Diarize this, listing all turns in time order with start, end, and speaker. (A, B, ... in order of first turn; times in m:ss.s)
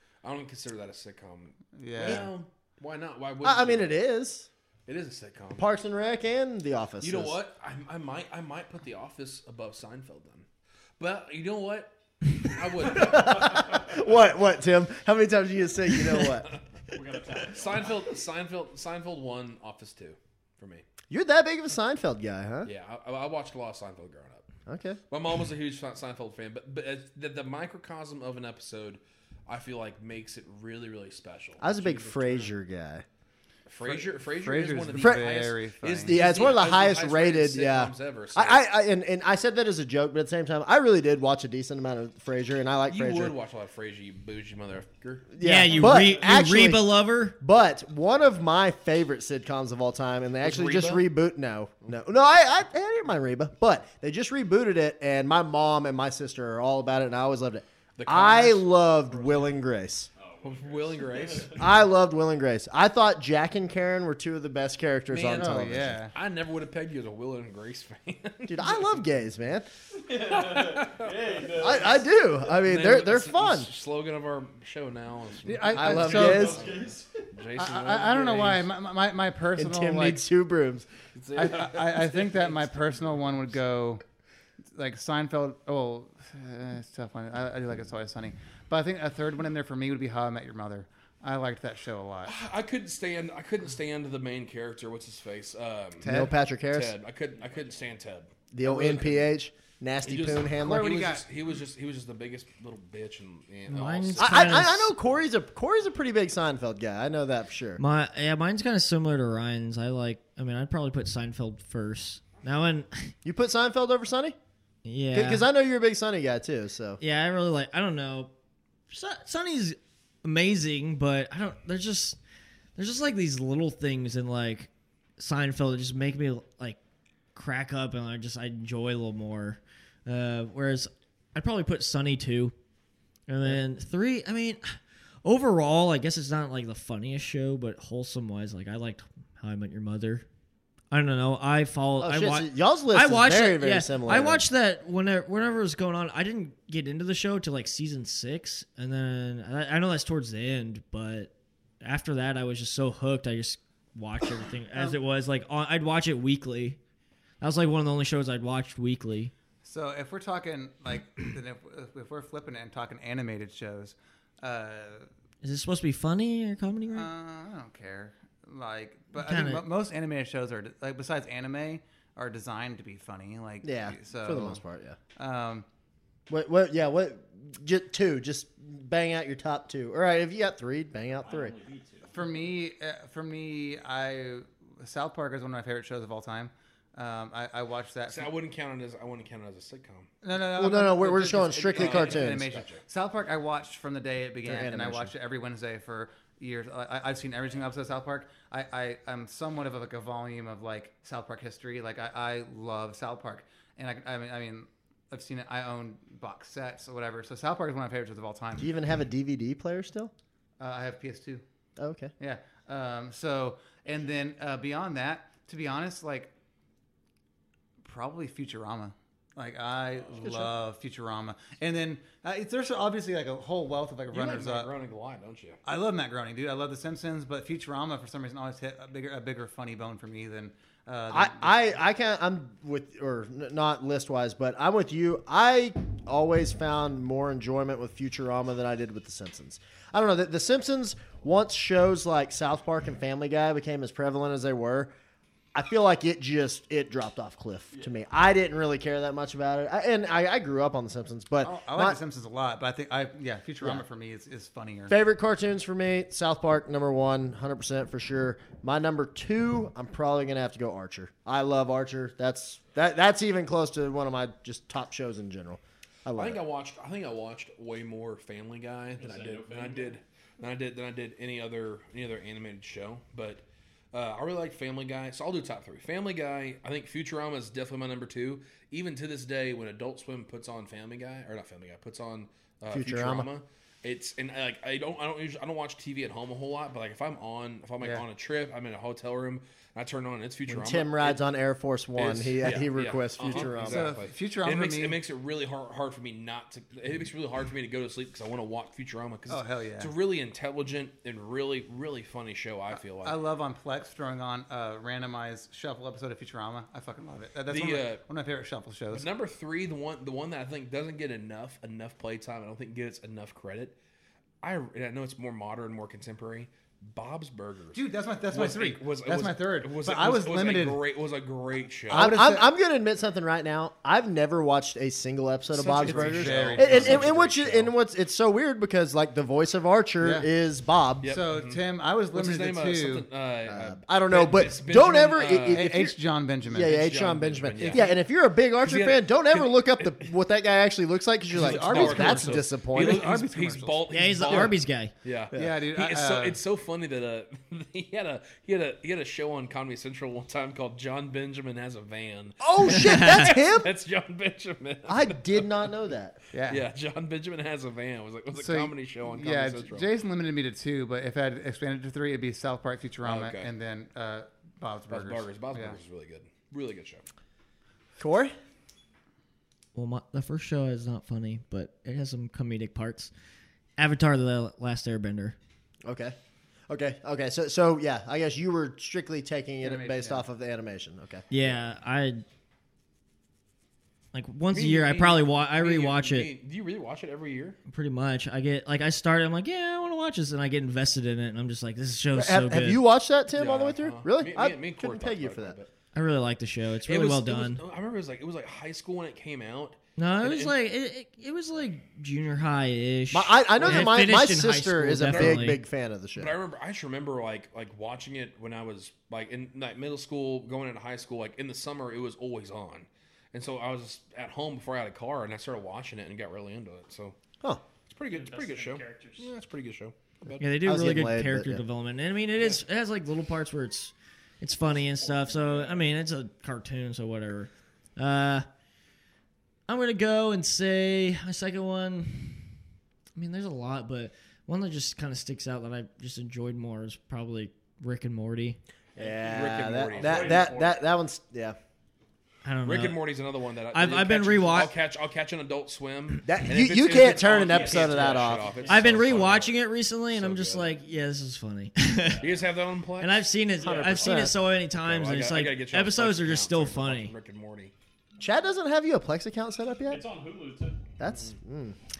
0:00.2-0:04.0 A
0:01.7-0:02.3 B
0:02.0-0:02.3 C
0:03.4-0:04.5 C
0:04.9-0:05.7 A
0:05.6-0:07.4 C
0:07.0-0:10.4 A
0:11.0-0:14.0 A
0:12.8-0:16.5 C
0:16.2-0:16.5 A
0:16.9-0:18.0 D
0:17.4-0:20.9 A
0:21.1-0:22.7 C
0:22.6-0:24.4 A
0:24.7-0:25.0 C
0:25.1-0:32.5 A
0:31.6-0:33.0 C
0:33.7-0:38.6 A
0:33.8-0:36.2 B
0:34.9-0:35.3 C
0:36.0-0:43.3 C
0:42.9-0:45.3 A
0:45.3-0:46.9 C
0:45.4-0:47.4 E
0:47.4-1:00.1 C
0:50.4-0:51.0 A
0:58.0-0:58.7 A
0:59.2-0:59.5 D
1:00.2-1:01.6 D
1:00.4-1:01.6 A
1:01.6-1:06.0 C
1:05.1-1:06.1 B
1:06.1-1:08.9 A
1:08.5-1:09.7 C
1:10.1-1:11.6 A
1:10.1-1:11.9 D
1:11.5-1:13.7 C
1:12.5-1:18.7 A
1:15.4-1:16.6 B
1:15.7-1:16.6 C
1:16.1-1:17.3 D
1:17.6-1:20.2 B
1:19.6-1:20.9 C
1:21.1-1:23.4 A
1:21.3-1:24.0 B
1:24.7-1:32.3 B
1:32.2-1:36.2 A
1:36.0-1:36.3 B
1:36.0-1:36.9 C
1:36.7-1:38.3 A
1:38.5-1:40.9 C
1:38.6-1:39.2 B
1:40.0-1:44.6 A
1:40.6-1:41.2 B
1:43.7-1:44.9 E
1:44.2-1:47.8 C
1:47.8-1:53.1 E
1:53.2-1:54.4 C
1:54.8-1:55.4 E
1:55.1-1:57.0 C
1:57.0-1:58.3 E
1:58.9-2:02.2 E
2:02.8-2:06.8 E
2:07.3-2:12.5 E
2:13.3-2:20.2 E
2:20.9-2:36.8 E
2:22.0-2:24.4 C
2:37.4-2:39.3 E
2:39.6-2:45.1 B
2:45.4-2:47.1 E
2:46.9-2:54.6 B
2:49.2-2:49.6 E
2:53.6-2:55.0 C
2:55.2-2:55.6 B
2:56.3-3:01.6 C
3:01.2-3:02.1 D
3:02.1-3:08.3 B
3:08.1-3:10.1 A
3:10.2-3:28.7 B
3:10.5-3:12.5 C
3:11.7-3:12.8 A
3:14.4-3:15.1 C
3:28.6-3:30.1 C
3:30.6-3:31.4 B
3:31.8-3:32.1 C
3:32.2-3:36.3 B
3:37.8-3:44.7 B
3:40.1-3:40.5 A
3:44.1-3:45.6 A
3:45.6-3:51.6 B
3:51.1-4:04.9 C
4:05.6-4:12.0 C
4:11.4-4:15.0 B
4:14.9-4:26.4 C
4:26.2-4:51.2 A
4:29.0-4:30.0 D
4:42.7-4:43.3 C
4:50.5-4:53.9 C
4:52.0-5:03.2 A
4:53.2-4:55.0 B
4:59.3-4:59.9 B
5:03.0-5:09.1 B
5:07.5-5:08.0 A
5:08.9-5:13.7 A
5:14.4-5:22.0 A
5:17.7-5:20.8 B
5:21.9-5:31.0 C
5:21.9-5:22.4 B
5:25.5-5:27.7 B
5:25.7-5:27.2 A
5:30.0-5:30.3 B
5:31.0-5:31.6 A
5:31.0-5:33.0 B
5:32.1-5:35.7 A
5:33.5-5:35.9 C
5:35.5-5:36.8 B
5:36.5-5:44.5 C
5:36.6-5:37.9 A
5:37.6-5:37.9 B
5:38.6-5:40.1 A
5:41.3-5:43.8 B
5:41.3-5:55.7 A
5:43.9-5:44.9 E
5:45.3-5:46.4 B
5:52.4-5:53.7 C
5:52.7-5:53.3 E
5:54.9-5:56.2 C
5:56.3-5:56.6 B
5:56.5-5:59.9 A
5:58.3-6:05.8 B
6:03.0-6:03.5 A
6:04.9-6:07.0 A
6:08.0-6:08.3 C
6:09.7-6:13.1 E
6:13.8-6:15.4 E
6:15.9-6:16.1 C
6:16.7-6:21.2 C
6:19.6-6:20.3 B
6:21.3-6:22.2 E
6:24.1-6:26.3 E
6:24.5-6:27.6 A
6:27.7-6:32.8 E
6:32.1-6:35.6 C
6:33.4-6:35.7 A
6:35.9-6:37.6 E
6:36.9-6:40.5 A
6:40.0-6:45.6 E
6:43.1-6:46.3 C
6:43.6-6:43.9 A
6:45.0-6:45.6 A
6:46.2-6:57.2 A
6:57.9-7:00.4 A
6:58.1-6:59.3 D
7:00.4-7:08.5 E
7:00.6-7:01.6 C
7:04.9-7:05.8 D
7:09.7-7:12.5 E
7:13.1-7:18.6 E
7:19.0-7:21.6 C
7:19.0-7:19.3 D
7:19.3-7:20.5 A
7:19.9-7:20.8 D
7:22.4-7:23.0 E
7:22.6-7:29.6 A
7:23.7-7:24.7 E
7:26.2-7:28.6 C
7:27.3-7:29.2 D
7:28.7-7:32.2 E
7:30.1-7:30.6 A
7:32.2-7:33.2 A
7:33.0-7:37.1 E
7:33.6-7:34.3 D
7:33.9-7:34.3 C
7:34.8-7:37.7 A
7:38.2-7:40.0 C
7:39.9-7:40.8 D
7:41.0-7:41.8 C